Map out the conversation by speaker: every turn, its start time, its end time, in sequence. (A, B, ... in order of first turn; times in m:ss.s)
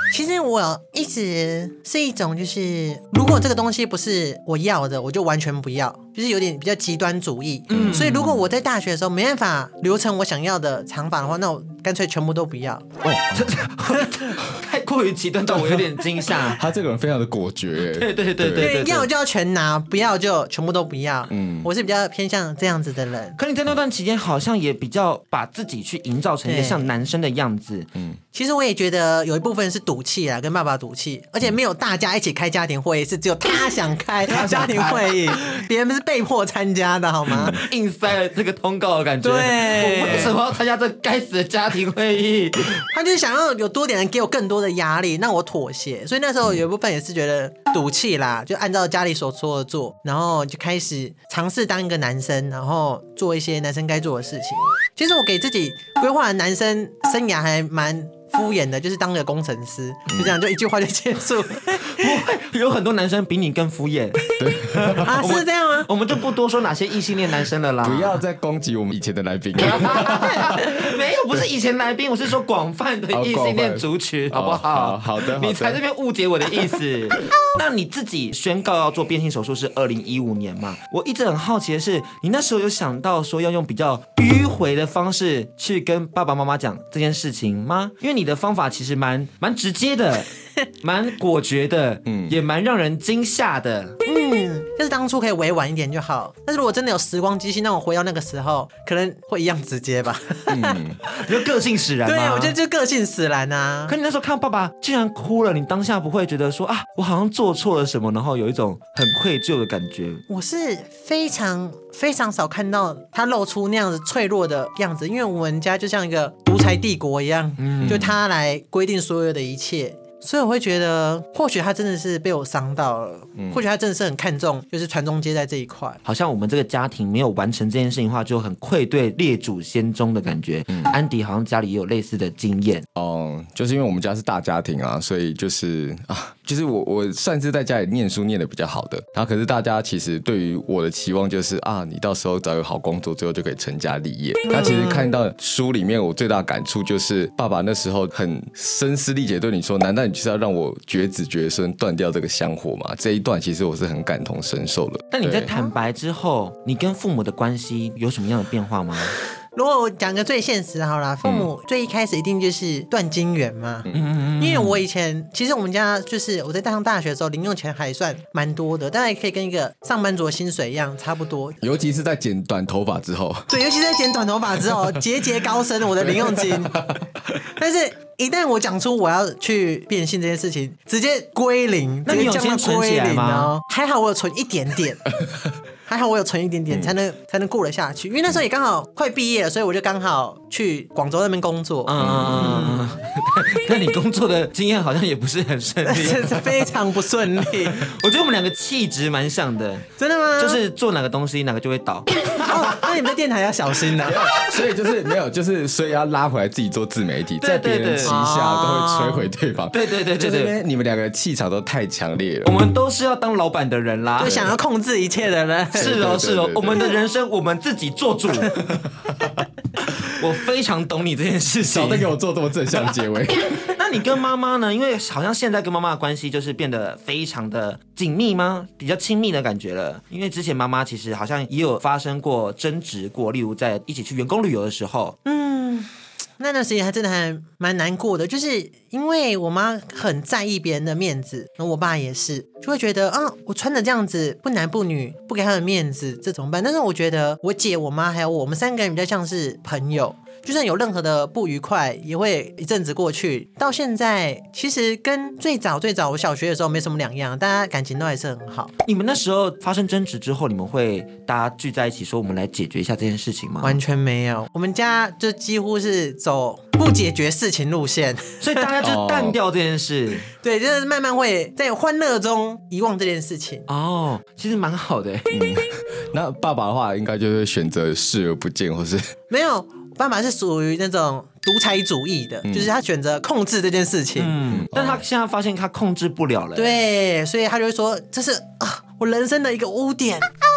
0:00.1-0:12.9 A
0:07.7-0:08.4 B
0:07.7-0:08.1 C
0:13.0-0:13.5 C
0:13.3-0:16.6 B
0:16.5-0:18.8 C
0:17.8-0:19.1 B
0:18.6-0:23.4 A
0:21.3-0:21.7 C
0:23.4-0:27.9 B
0:26.4-0:26.9 A
0:28.3-0:37.7 A
0:34.3-0:35.3 B
0:37.3-0:37.6 C
0:37.5-0:42.8 B
0:39.2-0:40.3 A
0:42.9-1:02.1 A
1:00.1-1:00.4 C
1:01.8-1:08.2 B
1:04.4-1:05.1 C
1:05.0-1:05.9 A
1:07.8-1:11.5 C
1:09.6-1:30.3 B
1:13.1-1:15.8 C
1:30.8-1:34.0 B
1:32.1-1:32.4 C
1:34.0-1:41.3 A
1:40.5-1:41.0 C
1:41.2-1:42.6 B
1:42.0-1:44.0 A
1:43.9-1:50.2 B
1:50.3-2:06.0 A
1:57.6-1:58.1 B
1:57.8-1:58.1 C
2:06.0-2:12.9 B
2:13.0-2:35.5 C
2:24.5-2:25.1 A
2:35.1-2:39.2 B
2:39.6-2:51.6 A
2:41.2-2:41.5 C
2:43.9-2:44.8 B
2:51.6-2:53.5 C
2:53.5-2:56.8 A
2:56.0-2:57.1 C
2:57.6-3:05.1 A
3:02.1-3:03.5 B
3:05.9-3:12.9 A
3:11.9-3:16.6 B
3:12.0-3:12.6 C
3:15.8-3:17.9 A
3:17.7-3:22.7 B
3:20.0-3:20.6 A
3:22.4-3:24.3 A
3:24.0-3:32.5 C
3:27.4-3:28.2 B
3:28.0-3:29.3 A
3:29.7-3:30.5 B
3:32.4-3:34.5 B
3:34.2-3:36.0 A
3:34.2-3:34.5 C
3:35.8-3:36.9 C
3:35.8-3:38.6 B
3:38.7-3:39.4 C
3:40.0-3:42.1 B
3:41.7-3:43.7 C
3:43.8-3:55.2 B
3:55.2-4:18.7 A
4:18.9-4:23.8 B
4:23.6-4:28.6 A
4:28.4-4:30.3 B
4:28.8-4:29.4 C
4:30.4-4:33.7 A
4:33.7-4:35.3 B
4:35.3-4:39.1 C
4:39.3-4:44.4 A
4:42.5-4:42.7 C
4:44.2-4:46.8 B
4:44.5-4:45.0 C
4:46.6-4:50.3 A